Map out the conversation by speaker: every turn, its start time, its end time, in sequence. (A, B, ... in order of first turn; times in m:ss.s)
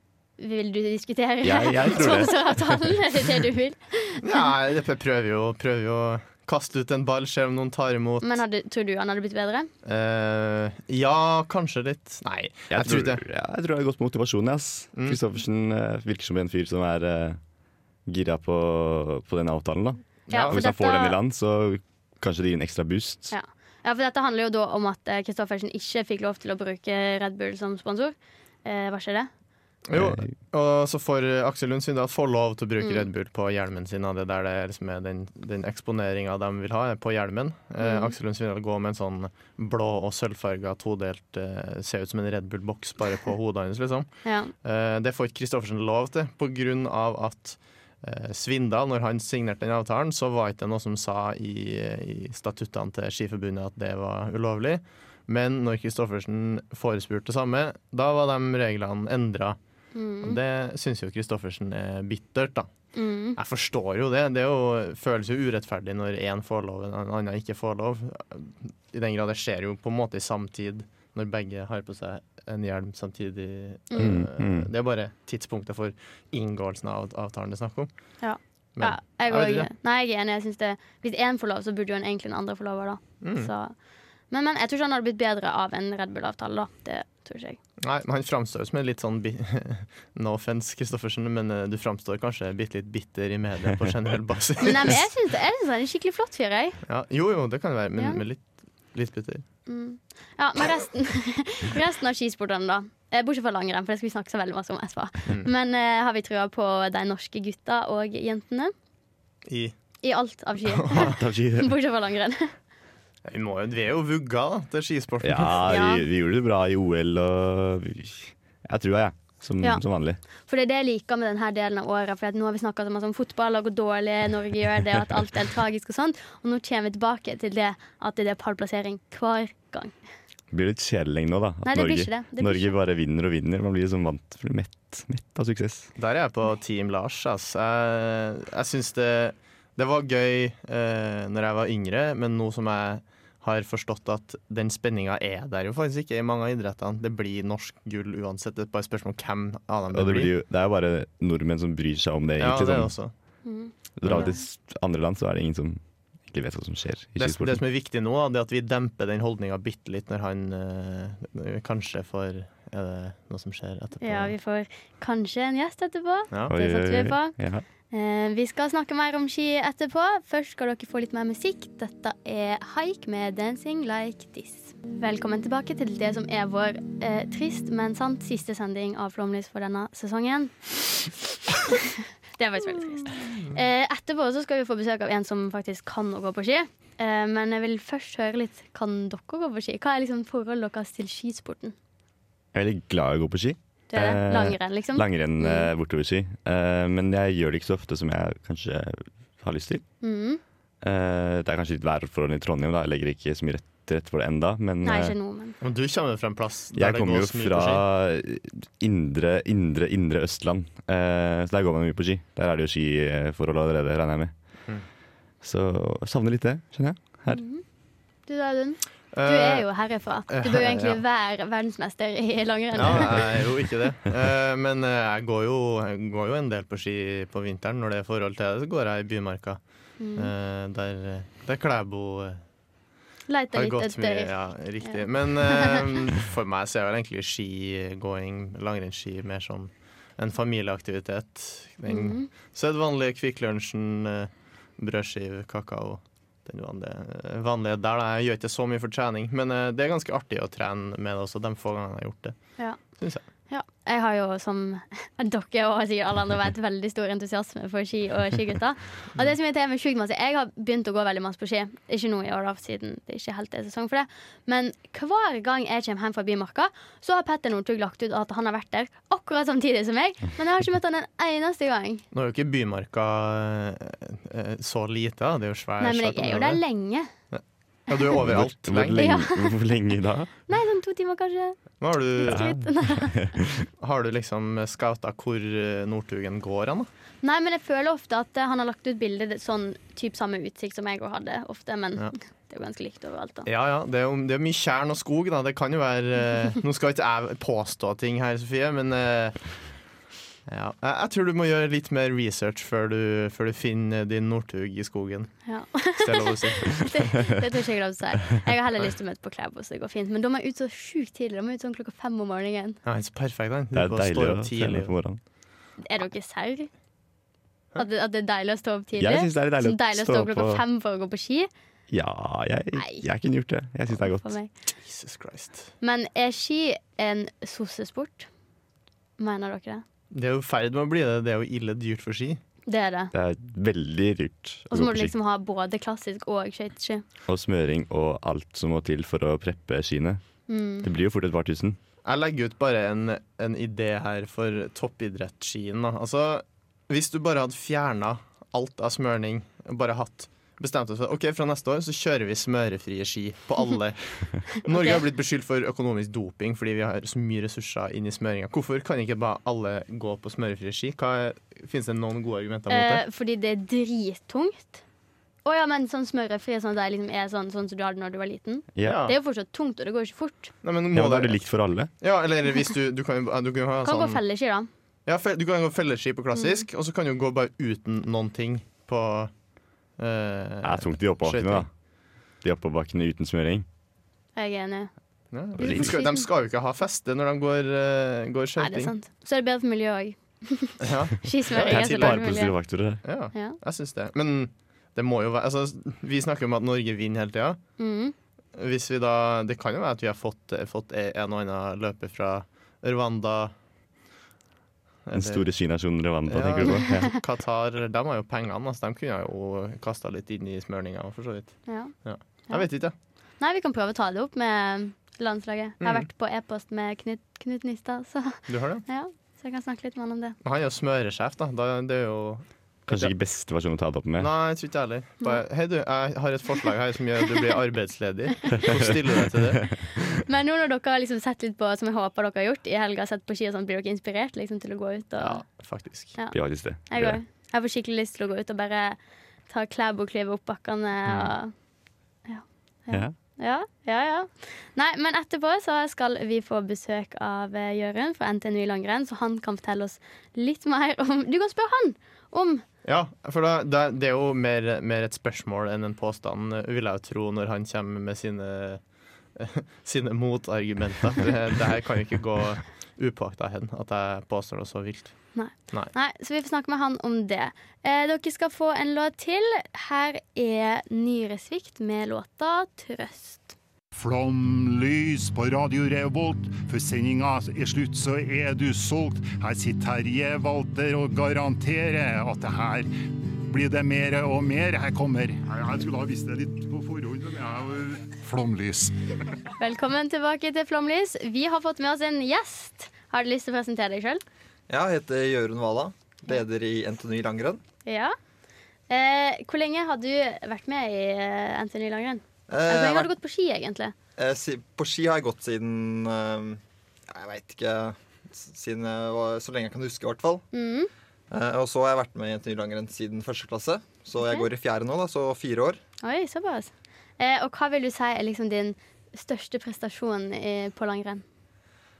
0:00.4-0:04.5 A
0:01.4-0:02.8 B
0:04.2-0:08.4 C
0:08.2-0:09.7 A
0:09.8-0:13.2 C
0:12.7-0:17.4 B
0:18.0-0:23.3 B
0:20.3-0:20.6 C
0:20.3-0:21.2 A
0:23.3-0:29.3 A
0:29.9-0:44.1 C
0:29.9-0:30.3 B
0:32.8-0:33.1 A
0:37.8-0:38.1 A
0:44.2-0:44.5 A
0:44.6-0:59.6 C
0:59.9-1:00.4 A
1:00.2-1:02.7 C
1:02.9-1:03.4 A
1:03.4-1:17.9 C
1:14.0-1:14.7 B
1:18.2-1:23.7 A
1:18.8-1:19.7 C
1:23.2-1:23.5 C
1:24.3-1:27.6 A
1:27.8-1:35.0 C
1:34.6-1:36.8 A
1:36.8-1:39.4 C
1:39.7-1:48.7 A
1:49.4-1:49.7 C
1:50.0-1:52.5 A
1:50.7-1:51.1 C
1:51.0-1:51.7 B
1:53.2-1:55.6 C
1:55.2-2:00.2 B
1:55.7-1:56.0 A
2:00.4-2:09.9 A
2:10.5-2:15.9 B
2:11.6-2:12.7 A
2:16.0-2:30.3 C
2:29.9-2:32.9 B
2:32.4-2:33.1 C
2:33.4-2:34.4 A
2:34.0-2:37.6 B
2:34.0-2:34.3 C
2:37.2-2:44.3 C
2:44.0-2:47.4 A
2:46.5-2:47.6 B
2:47.9-3:11.7 A
3:12.5-3:19.8 B
3:13.9-3:15.7 A
3:20.0-3:20.4 A
3:20.8-3:25.1 B
3:24.8-3:25.6 A
3:25.6-3:27.8 C
3:26.7-3:34.3 B
3:35.4-3:37.4 B
3:37.3-3:37.6 A
3:38.2-3:43.2 A
3:39.1-3:39.7 C
3:40.3-3:41.0 C
3:42.7-3:49.6 C
3:50.0-3:50.3 A
3:50.2-3:52.4 C
3:53.3-3:55.9 A
3:53.5-4:12.4 C
4:01.9-4:02.3 A
4:13.5-4:32.0 A
4:32.1-4:36.6 C
4:35.8-4:37.1 A
4:37.3-4:39.1 C
4:38.2-4:40.3 B
4:38.9-4:39.6 A
4:40.5-4:41.6 A
4:41.8-4:42.5 C
4:42.1-4:43.3 A
4:42.3-4:43.5 B
4:43.8-4:46.9 C
4:47.2-4:53.5 A
4:53.4-4:59.4 C
5:00.5-5:05.4 C
5:05.4-5:12.8 A
5:05.9-5:07.1 C
5:12.8-5:14.9 C
5:13.7-5:15.2 B
5:15.8-5:16.7 A
5:17.8-5:21.5 A
5:19.0-5:20.6 B
5:21.9-5:24.4 B
5:22.7-5:23.0 A
5:24.0-5:24.5 A
5:24.8-5:25.7 C
5:25.8-5:28.3 A
5:29.2-5:29.8 A
5:30.1-5:32.4 C
5:32.7-5:33.1 A
5:33.1-5:35.1 B
5:34.7-5:37.0 A
5:37.3-5:40.2 B
5:40.5-5:40.9 A
5:40.8-5:41.8 B
5:42.0-6:03.0 C
5:54.7-5:55.0 A
6:02.7-6:04.8 A
6:05.4-6:10.5 A
6:08.7-6:09.0 B
6:08.8-6:09.1 C
6:10.6-6:11.4 C
6:10.9-6:11.9 B
6:12.0-6:14.2 C
6:13.8-6:14.7 A
6:15.0-6:19.3 C
6:16.3-6:16.6 A
6:20.0-6:21.7 C
6:20.6-6:21.7 B
6:22.4-6:23.6 B
6:24.4-6:24.9 A
6:25.3-6:28.9 C
6:25.6-6:26.2 A
6:25.6-6:25.9 B
6:28.6-6:32.5 A
6:30.8-6:32.4 C
6:31.6-6:33.0 B
6:33.0-6:37.6 C
6:37.8-6:38.1 A
6:38.5-6:43.5 C
6:45.0-6:45.4 C
6:45.1-6:47.1 B
6:46.2-6:52.9 C
6:51.7-6:51.9 A
6:53.4-7:00.4 A
6:55.8-6:56.1 C
6:58.5-6:58.8 C
7:00.4-7:03.1 C
7:02.9-7:04.3 B
7:04.2-7:09.6 C
7:10.2-7:15.4 A
7:15.2-7:16.2 C
7:16.3-7:17.2 B
7:16.9-7:19.0 A
7:19.5-7:21.5 A
7:22.2-7:32.6 A
7:32.8-7:38.8 C
7:39.3-7:45.1 C
7:45.3-7:53.6 A
7:53.9-8:02.9 D
8:03.5-8:09.3 D
8:09.6-8:14.2 A
8:14.7-8:17.6 E
8:17.8-8:18.1 A
8:18.9-8:23.9 A
8:22.5-8:23.1 E
8:24.2-8:30.4 E
8:30.5-8:30.9 A
8:31.3-8:35.8 E
8:34.2-8:34.4 A
8:36.0-8:41.2 A